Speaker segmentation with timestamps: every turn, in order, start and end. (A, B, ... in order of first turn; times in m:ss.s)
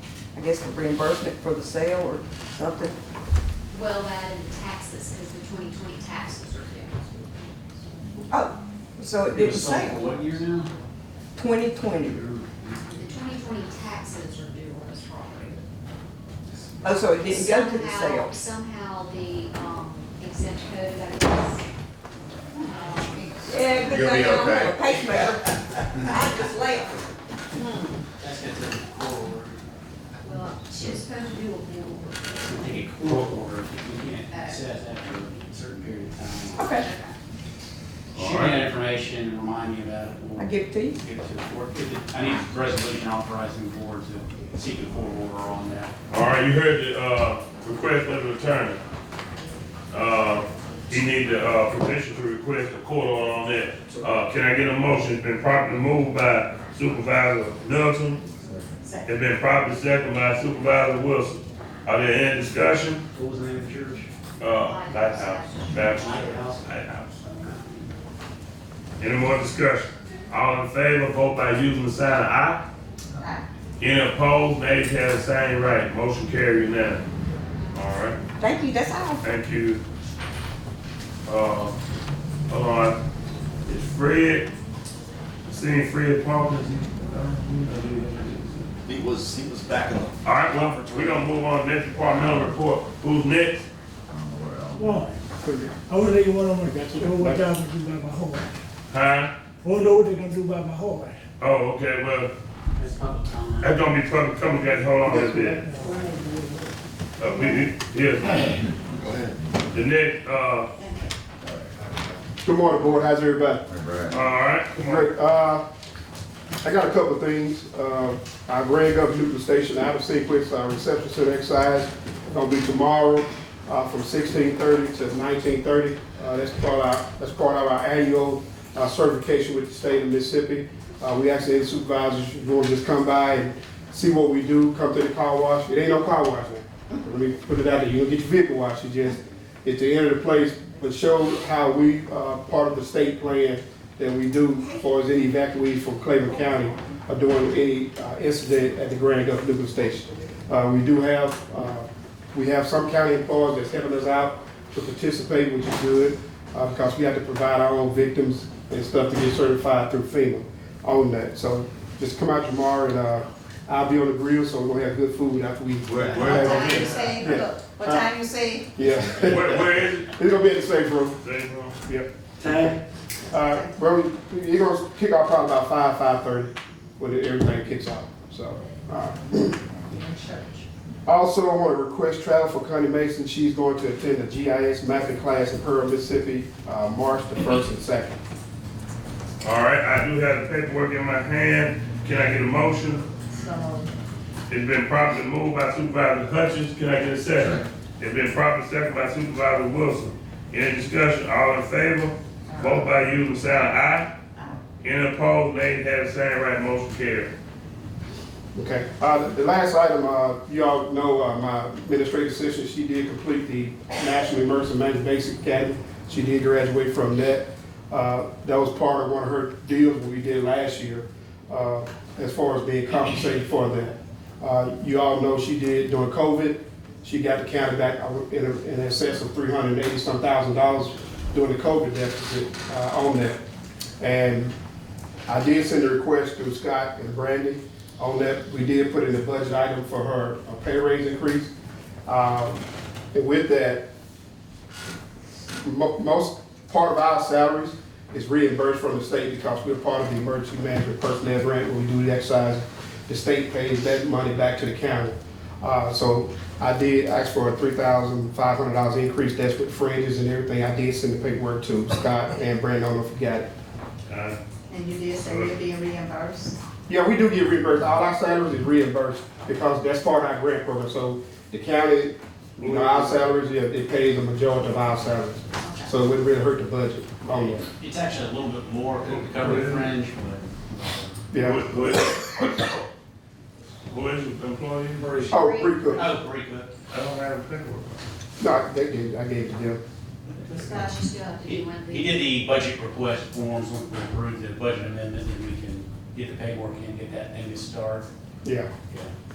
0:00.4-0:02.9 A
0:03.7-0:07.6 B
0:08.3-0:10.0 A
0:09.3-0:10.8 C
0:11.3-0:12.2 A
0:12.0-0:13.0 C
0:13.0-0:15.6 B
0:16.8-0:18.4 A
0:17.2-0:21.7 B
0:22.6-0:23.4 B
0:23.4-0:25.5 A
0:24.0-0:24.7 D
0:26.0-0:26.9 A
0:27.6-0:28.0 A
0:28.2-0:29.6 C
0:30.2-0:32.5 B
0:32.4-0:36.7 C
0:34.3-0:34.6 B
0:36.6-0:36.9 A
0:36.6-0:37.1 B
0:38.1-0:38.6 E
0:38.1-0:45.9 C
0:40.4-0:41.0 A
0:46.1-0:48.8 E
0:49.9-0:58.2 E
0:59.0-1:03.0 E
1:03.1-1:04.1 C
1:04.4-1:07.1 E
1:04.6-1:06.2 B
1:05.9-1:06.7 C
1:07.5-1:07.8 C
1:09.0-1:12.6 E
1:13.8-1:17.0 E
1:17.7-1:18.2 E
1:18.4-1:19.2 A
1:19.2-1:19.8 E
1:21.2-1:21.8 E
1:22.5-1:23.0 E
1:23.6-1:24.5 E
1:25.5-1:28.7 E
1:28.8-1:31.4 D
1:30.2-1:33.6 E
1:32.0-1:32.5 D
1:34.1-1:35.1 D
1:34.8-1:35.2 F
1:35.4-1:35.8 G
1:35.9-1:38.6 F
1:37.2-1:37.4 G
1:38.9-1:39.3 E
1:39.6-1:41.2 F
1:41.4-1:42.3 E
1:42.8-1:43.8 C
1:43.6-1:45.7 E
1:45.1-1:45.6 G
1:45.6-1:45.9 F
1:45.8-1:46.6 H
1:47.2-1:48.5 E
1:48.3-1:49.7 D
1:49.7-1:50.7 E
1:50.8-1:51.1 H
1:51.4-1:52.1 D
1:52.4-1:53.7 G
1:53.7-1:54.3 D
1:54.1-1:55.1 E
1:54.8-1:55.6 G
1:56.6-2:48.1 G
2:45.9-2:46.8 D
2:46.1-2:48.7 H
2:46.5-2:46.9 E
2:48.8-2:51.2 G
2:49.2-2:50.1 E
2:51.2-2:51.8 E
2:51.8-2:52.8 G
2:52.4-2:52.8 E
2:53.3-2:59.6 G
2:53.4-2:53.7 H
2:59.9-3:00.6 H
3:01.0-3:08.2 G
3:09.4-3:13.0 E
3:13.3-3:13.9 H
3:14.5-3:24.1 E
3:22.5-3:22.8 H
3:24.8-3:27.3 E
3:28.5-3:53.4 G
3:54.0-3:54.5 G
3:55.3-4:01.5 G
4:02.0-4:03.8 G
4:05.6-4:23.5 G
4:24.1-4:24.4 E
4:24.7-4:26.6 H
4:25.2-4:25.5 E
4:26.9-4:37.7 G
4:32.6-4:33.3 E
4:35.6-4:35.9 H
4:37.3-4:40.2 C
4:39.1-4:40.4 E
4:41.3-4:41.6 G
4:41.4-4:42.8 E
4:43.9-4:45.3 E
4:45.3-4:46.0 B
4:45.3-4:46.1 G
4:45.9-4:46.7 C
4:46.9-4:48.0 E
4:48.4-4:49.8 G
4:50.4-4:50.9 C
4:50.5-4:52.4 B
4:51.4-4:58.1 C
4:58.4-4:58.7 G